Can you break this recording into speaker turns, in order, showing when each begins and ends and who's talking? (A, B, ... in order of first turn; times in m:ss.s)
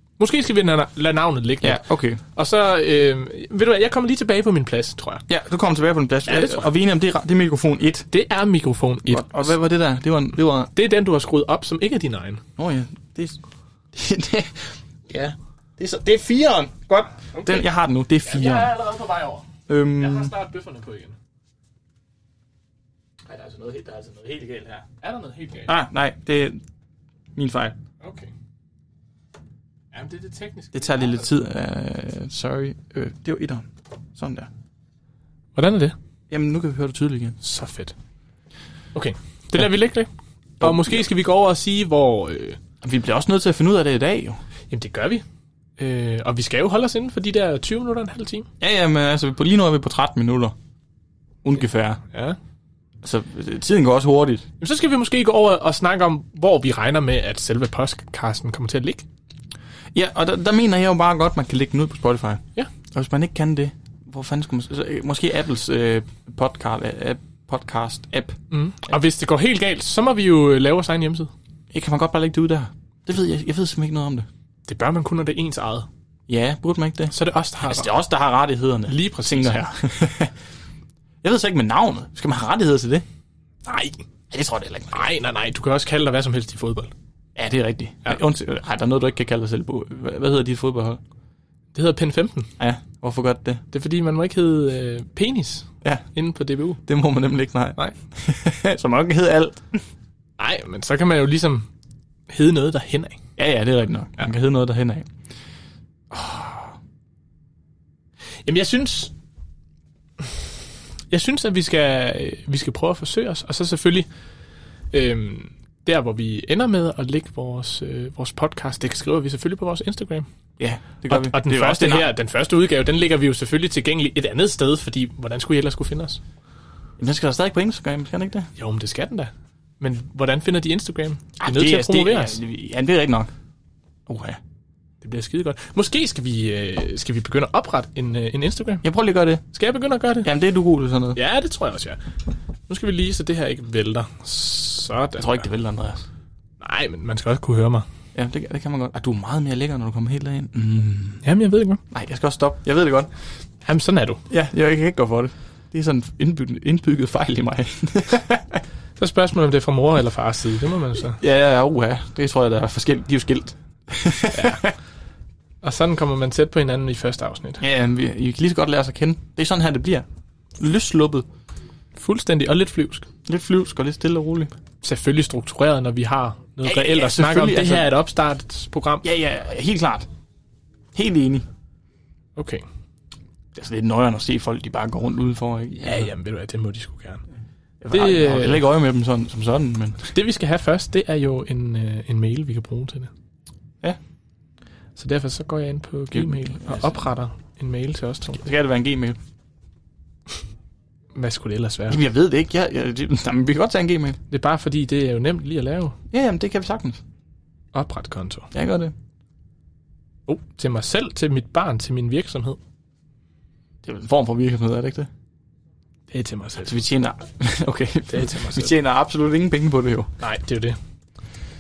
0:00.2-0:05.2 A
0:01.6-0:02.2 B
0:05.3-0:08.1 B
0:06.3-0:06.7 A
0:08.1-0:09.5 A
0:09.1-0:10.7 B
0:10.7-0:12.4 A
0:12.6-0:13.4 B
0:13.9-0:18.8 B
0:17.3-0:17.7 A
0:18.2-0:19.5 A
0:19.7-0:20.4 B
0:20.0-0:21.2 A
0:23.3-0:23.6 A
0:23.4-0:24.8 B
0:24.9-0:25.7 A
0:25.6-0:26.6 B
0:27.4-0:27.8 B
0:28.0-0:28.3 A
0:29.9-0:31.3 A
0:30.7-0:34.5 B
0:35.5-0:35.9 A
0:36.3-0:37.4 B
0:37.4-0:37.9 A
0:38.9-0:40.1 A
0:40.6-0:42.6 A
0:40.6-0:41.0 B
0:42.8-0:44.4 B
0:44.7-0:45.2 A
0:45.8-0:48.5 A
0:48.6-0:50.5 B
0:51.4-0:52.0 B
0:53.0-0:54.4 B
0:54.6-0:59.0 A
0:59.9-1:08.4 B
1:08.5-1:11.3 A
1:11.7-1:14.3 B
1:14.7-1:15.9 A
1:16.3-1:20.3 B
1:17.1-1:17.9 A
1:18.9-1:19.6 A
1:21.2-1:23.0 B
1:23.6-1:24.0 A
1:24.3-1:25.1 B
1:24.9-1:26.9 A
1:27.4-1:31.0 B
1:31.7-1:32.5 A
1:32.6-1:33.6 B
1:33.7-1:36.8 A
1:36.8-1:39.8 B
1:40.4-1:41.7 A
1:42.3-1:43.2 A
1:43.4-1:45.1 B
1:46.1-1:46.7 B
1:48.4-1:49.1 A
1:51.1-1:54.1 A
1:54.9-2:00.2 A
2:00.6-2:02.1 B
2:01.1-2:06.2 A
2:07.0-2:08.5 B
2:08.6-2:12.4 A
2:11.4-2:13.3 B
2:14.1-2:14.4 B
2:15.0-2:18.8 A
2:18.8-2:19.4 B
2:19.5-2:20.3 A
2:20.2-2:21.2 B
2:21.1-2:22.0 A
2:22.7-2:25.5 A
2:25.2-2:26.0 B
2:26.6-2:27.8 A
2:28.1-2:31.2 B
2:31.2-2:31.8 A
2:31.9-2:33.1 B
2:33.6-2:34.2 A
2:34.3-2:38.6 B
2:39.0-2:41.2 A
2:41.1-2:44.7 B
2:44.3-2:44.6 A
2:45.6-2:47.6 A
2:47.6-2:50.0 B
2:50.6-2:51.2 B
2:52.0-2:53.1 A
2:53.2-2:54.5 B
2:54.8-2:59.0 A
2:56.6-2:58.0 B
2:59.0-3:00.0 B
3:00.9-3:01.4 B
3:02.4-3:02.6 A
3:03.5-3:06.1 B
3:05.8-3:07.2 A
3:07.8-3:10.1 B
3:07.9-3:08.6 A
3:10.1-3:13.1 A
3:15.0-3:18.4 A
3:16.1-3:17.0 B
3:18.3-3:19.2 B
3:21.1-3:22.0 A
3:21.9-3:24.2 B
3:24.3-3:26.0 A
3:26.1-3:27.0 B
3:27.7-3:28.5 A
3:28.5-3:28.9 B
3:30.3-3:32.6 A
3:33.8-3:35.1 B
3:36.1-3:36.8 A
3:36.6-3:40.1 B
3:38.1-3:38.7 A
3:40.2-3:40.8 A